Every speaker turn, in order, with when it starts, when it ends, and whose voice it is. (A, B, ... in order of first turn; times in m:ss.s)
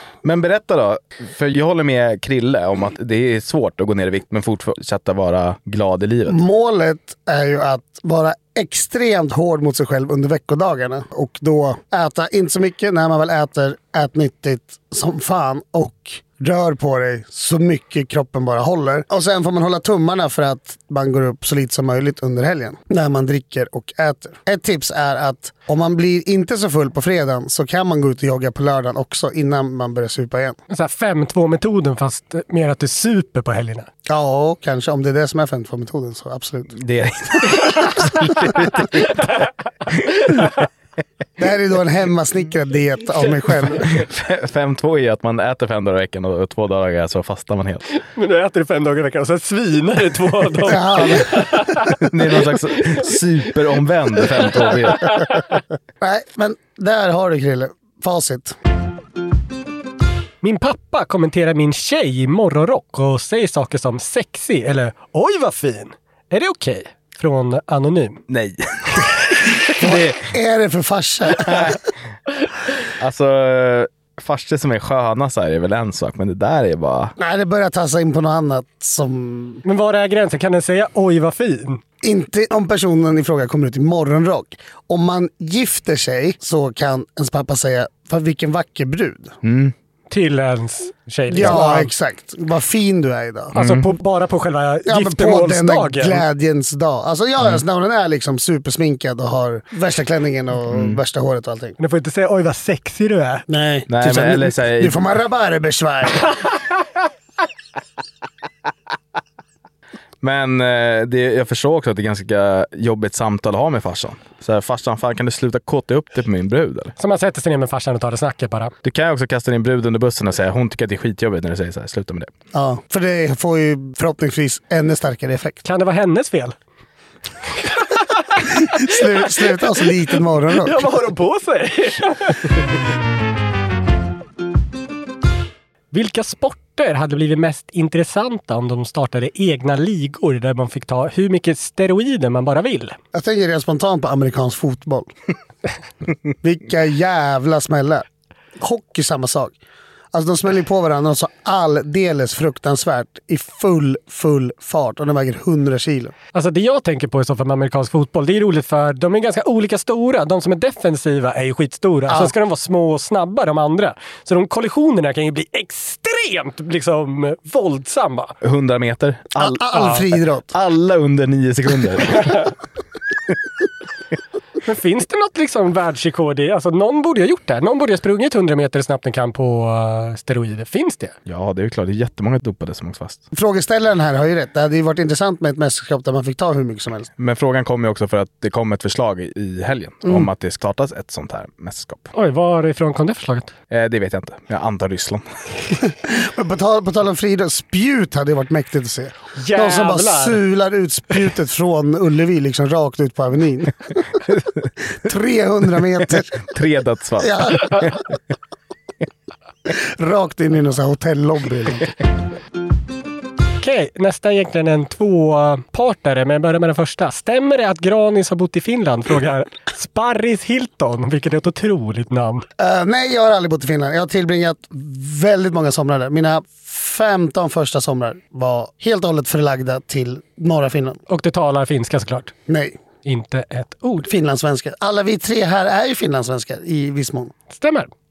0:00.2-0:06.4 A
0:06.3-0:30.6 B
0:30.7-0:33.9 C
0:34.1-0:36.8 B
0:36.8-0:39.1 A
0:41.4-0:43.9 B
0:43.9-0:47.8 A
0:48.1-0:52.0 C
0:50.7-0:51.6 B
0:52.0-0:55.1 A
0:56.0-0:58.6 B
1:00.4-1:08.2 C
1:08.3-1:09.1 A
1:09.8-1:11.8 B
1:11.4-1:11.8 A
1:13.0-1:17.2 A
1:17.2-1:19.6 B
1:19.6-1:21.8 C
1:22.0-1:29.4 B
1:29.4-1:29.7 A
1:30.1-1:31.9 C
1:31.3-1:33.6 B
1:33.6-1:33.9 A
1:33.6-1:36.2 C
1:34.9-1:41.8 B
1:40.7-1:41.0 A
1:41.8-1:43.5 C
1:43.5-1:46.3 B
1:43.9-1:45.0 A
1:50.2-1:56.9 A
1:57.0-1:58.7 C
1:58.8-2:02.3 A
2:02.5-2:05.6 B
2:05.6-2:06.6 C
2:08.7-2:10.9 B
2:10.6-2:12.6 C
2:15.9-2:23.0 C
2:23.1-2:25.1 B
2:26.4-2:28.1 B
2:28.6-2:29.6 B
2:30.1-2:36.1 B
2:36.3-2:48.4 C
2:42.1-2:42.3 B
2:48.4-2:49.6 A
2:49.4-2:50.5 B
2:49.8-2:50.0 C
2:50.5-2:52.5 A
2:54.6-3:01.2 C
3:01.3-3:03.2 A
3:03.3-3:07.1 B
3:07.2-3:12.1 A
3:12.1-3:13.5 C
3:13.7-3:15.2 A
3:16.0-3:24.2 B
3:19.4-3:20.4 C
3:24.9-3:26.4 B
3:26.5-3:28.0 A
3:27.2-3:28.0 B
3:29.7-3:31.9 B
3:33.6-3:42.5 C
3:42.6-3:51.0 B
3:51.1-3:52.3 C
3:52.5-3:52.8 B
3:53.0-3:54.1 C
3:54.0-3:57.3 B
3:57.5-3:57.9 C